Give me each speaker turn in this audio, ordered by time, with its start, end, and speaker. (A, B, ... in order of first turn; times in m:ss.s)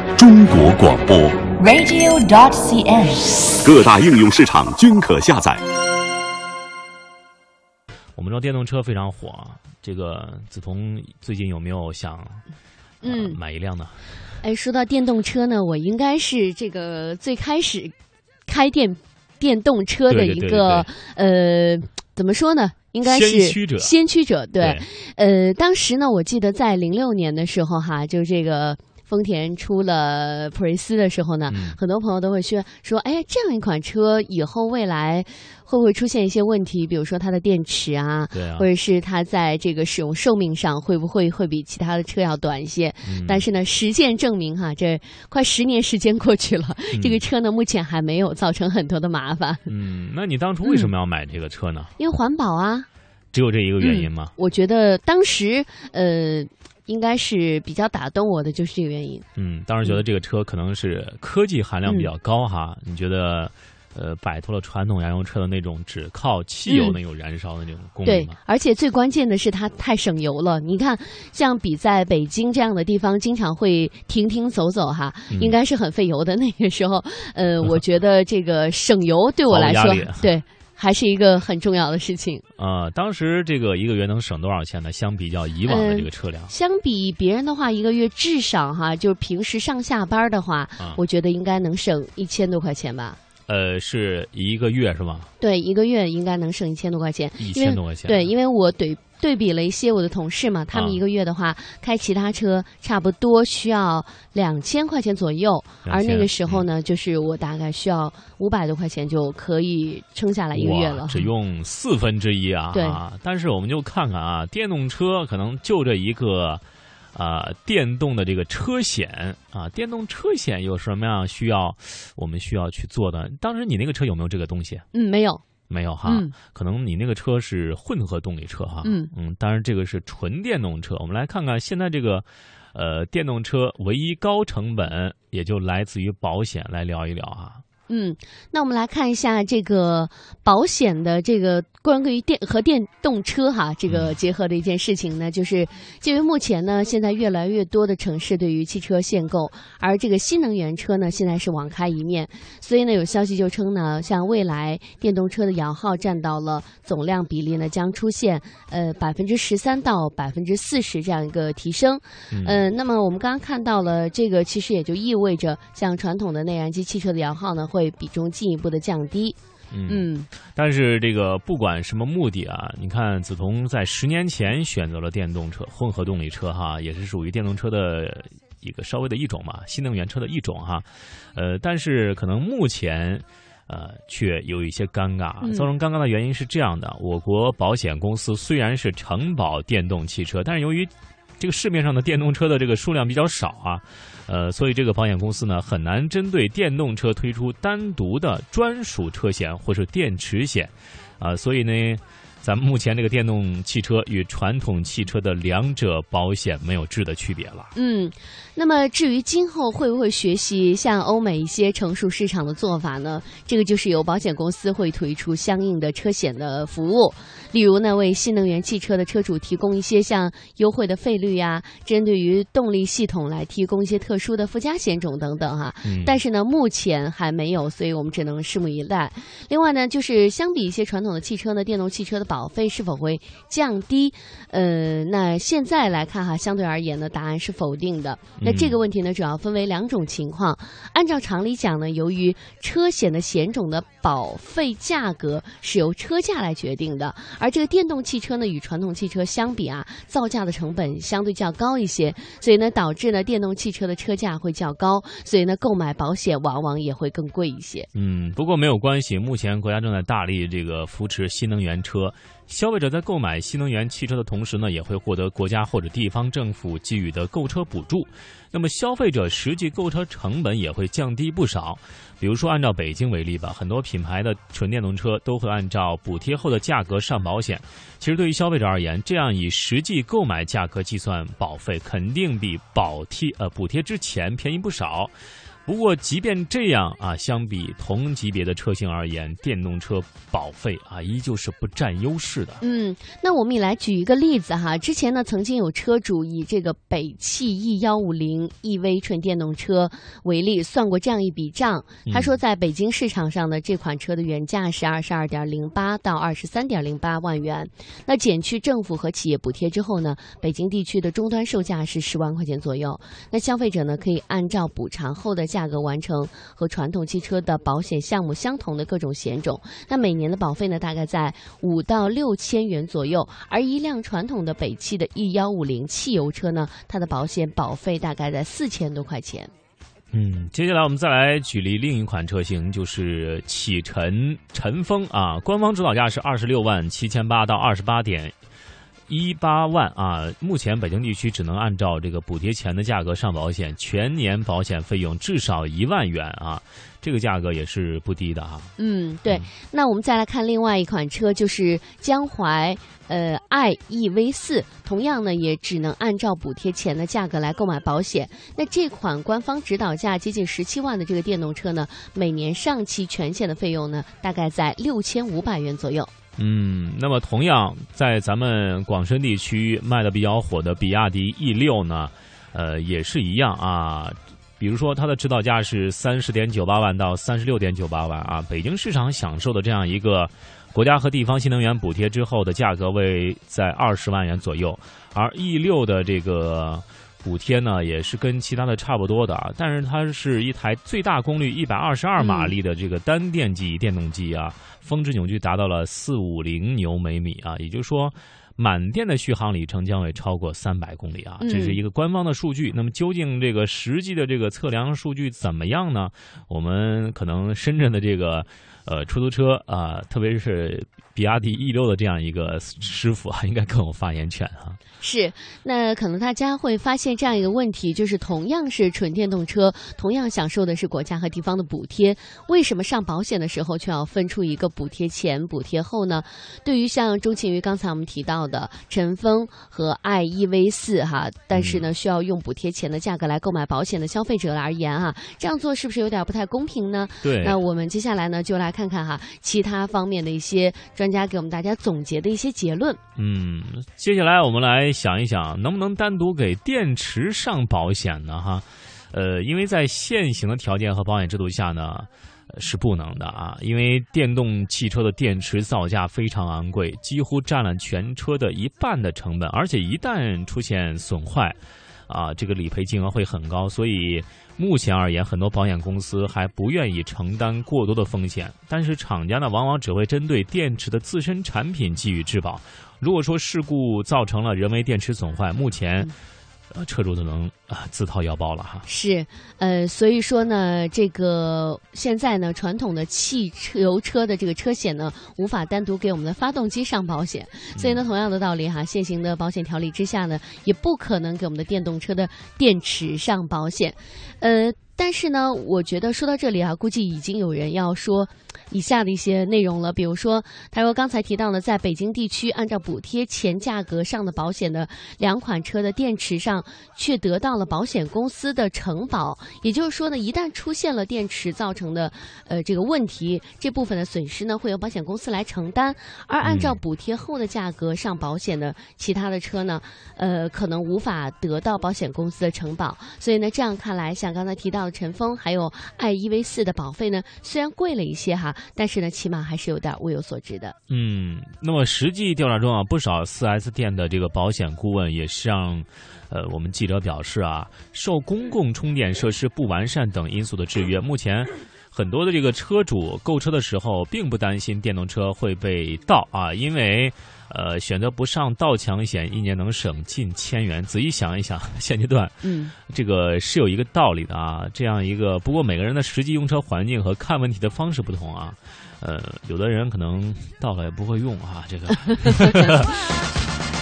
0:00.2-0:01.5 A
0:01.6-0:03.6 B
0:03.6-0:05.6 A
0:08.2-0:12.4 C
0:13.0-0:13.4 D
0:13.0-0:14.0 C
0:14.4-0:18.0 D
0:18.5-0:49.7 D
0:20.1-0:20.9 C
0:23.0-0:23.9 C
0:24.6-0:24.9 C
0:31.5-0:31.8 C
0:38.3-0:38.7 C
0:43.0-0:43.4 C
0:46.9-0:47.2 C
0:49.7-0:51.9 C
0:50.6-0:50.9 D
0:52.0-0:52.9 D
0:53.3-0:54.3 C
0:53.8-0:59.3 D
0:59.4-1:08.4 C
1:01.8-1:02.1 D
1:06.7-1:07.0 D
1:08.0-1:22.4 D
1:15.3-1:15.6 C
1:19.5-1:20.4 C
1:22.6-1:26.5 C
1:25.7-1:33.2 D
1:33.5-1:35.3 C
1:35.4-1:51.3 D
1:37.4-1:38.3 C
1:40.7-1:41.0 C
1:45.8-1:46.7 C
1:50.5-1:56.6 C
1:52.7-1:53.0 D
1:57.2-2:04.8 C
2:04.9-2:05.4 D
2:05.7-2:17.6 C
2:06.0-2:06.4 D
2:08.8-2:09.1 D
2:17.9-2:50.3 D
2:23.9-2:24.2 C
2:42.3-2:42.6 C
2:49.7-3:27.7 C
3:05.4-3:05.7 D
3:27.8-4:17.9 D
3:45.8-3:46.2 C
3:58.4-3:58.8 C
4:17.9-4:45.1 C
4:45.7-4:52.6 C
4:52.6-5:29.5 D
5:02.1-5:02.4 C
5:30.1-5:38.3 C
5:39.1-5:48.7 C
5:48.8-6:06.1 D
6:06.4-6:54.8 C
6:32.2-6:32.6 D
6:41.4-6:41.8 D
6:55.0-7:23.0 D
7:11.5-7:11.9 C
7:17.2-7:17.6 C
7:23.2-7:41.6 C
7:42.1-7:56.1 C
7:56.7-7:58.9 C
7:58.9-8:50.8 D
8:07.8-8:08.0 C
8:36.4-8:36.8 C
8:50.9-9:23.0 C
9:12.4-9:12.7 D
9:22.3-9:22.6 D